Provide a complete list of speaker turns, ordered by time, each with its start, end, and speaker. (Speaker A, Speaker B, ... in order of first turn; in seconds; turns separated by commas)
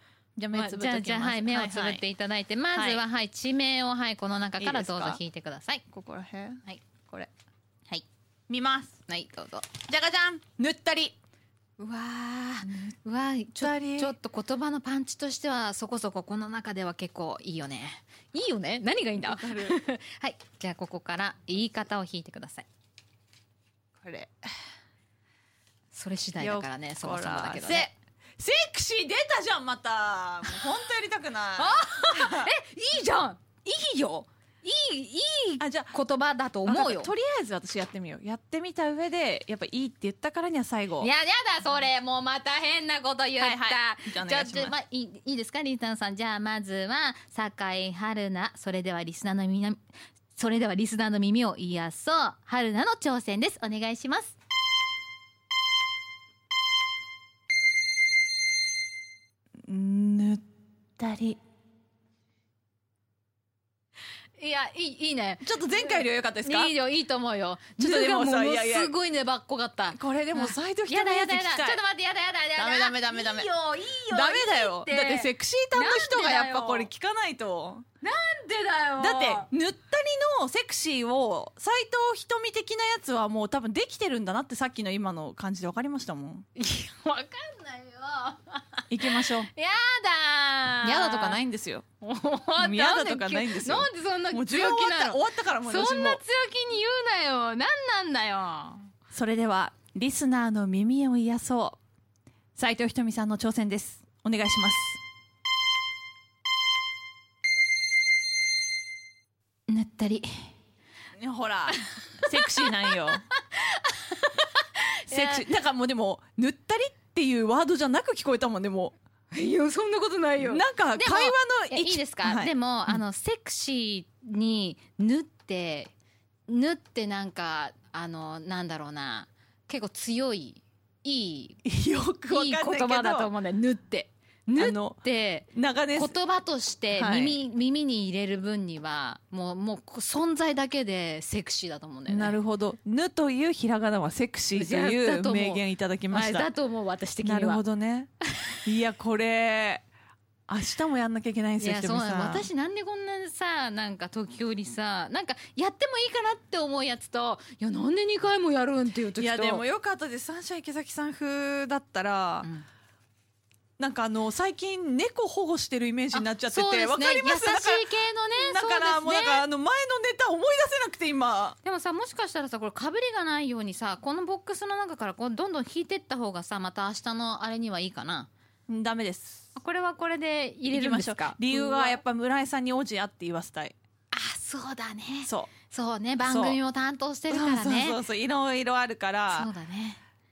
Speaker A: 0.4-2.0, Speaker B: 0.5-5.8, Speaker A: 2.7-3.0, Speaker A: 4.6-5.2, Speaker A: 5.9-7.3, Speaker A: 8.5-9.0, Speaker B: 9.1-9.7, Speaker A: 9.8-11.2, Speaker B: 11.8-22.7, Speaker A: 12.6-13.0, Speaker A: 13.6-14.2, Speaker A: 19.2-19.8, Speaker A: 24.0-24.3, Speaker B: 25.9-27.9, Speaker A: 26.4-32.5, Speaker B: 31.6-37.1, Speaker A: 35.6-36.0, Speaker A: 36.7-41.1, Speaker B: 41.0-49.8, Speaker A: 43.4-44.7, Speaker B: 50.3-54.4, Speaker A: 59.7-60.4, Speaker A: 61.0-61.4, Speaker B: 64.4-76.9, Speaker A: 65.4-66.7, Speaker A: 67.8-68.9, Speaker A: 69.9-71.8, Speaker A: 72.6-73.5, Speaker A: 74.1-77.9, Speaker B: 78.0-79.5, Speaker A: 79.0-86.5, Speaker B: 86.6-91.4, Speaker A: 88.9-89.5, Speaker A: 90.8-91.8, Speaker B: 92.0-98.9, Speaker A: 92.6-96.2, Speaker A: 99.1-101.8, Speaker A: 102.6-105.0, Speaker B: 109.7-110.3, Speaker A: 111.2-113.2, Speaker B: 112.3-115.4, Speaker A: 115.1-119.0, Speaker B: 119.3-125.9, Speaker A: 120.4-123.0, Speaker B: 126.5-131.6, Speaker A: 131.7-133.3, Speaker B: 132.3-142.4, Speaker A: 134.6-136.2, Speaker A: 136.9-137.4, Speaker A: 142.1-146.5, Speaker B: 144.5-147.6, Speaker A: 147.2-148.1, Speaker A: 148.7-149.8, Speaker A: 150.5-152.5, Speaker B: 151.6-159.6, Speaker A: 159.2-162.5, Speaker A: 163.8-167.9, Speaker B: 166.1-169.4, Speaker A: 168.4-171.6, Speaker B: 171.6-178.3, Speaker A: 178.7-179.5, Speaker B: 179.6-182.0, Speaker A: 180.7-183.8, Speaker B: 184.1-188.0, Speaker A: 185.2-185.5, Speaker A: 186.2-186.6, Speaker A: 187.3-189.5, Speaker B: 189.3-190.0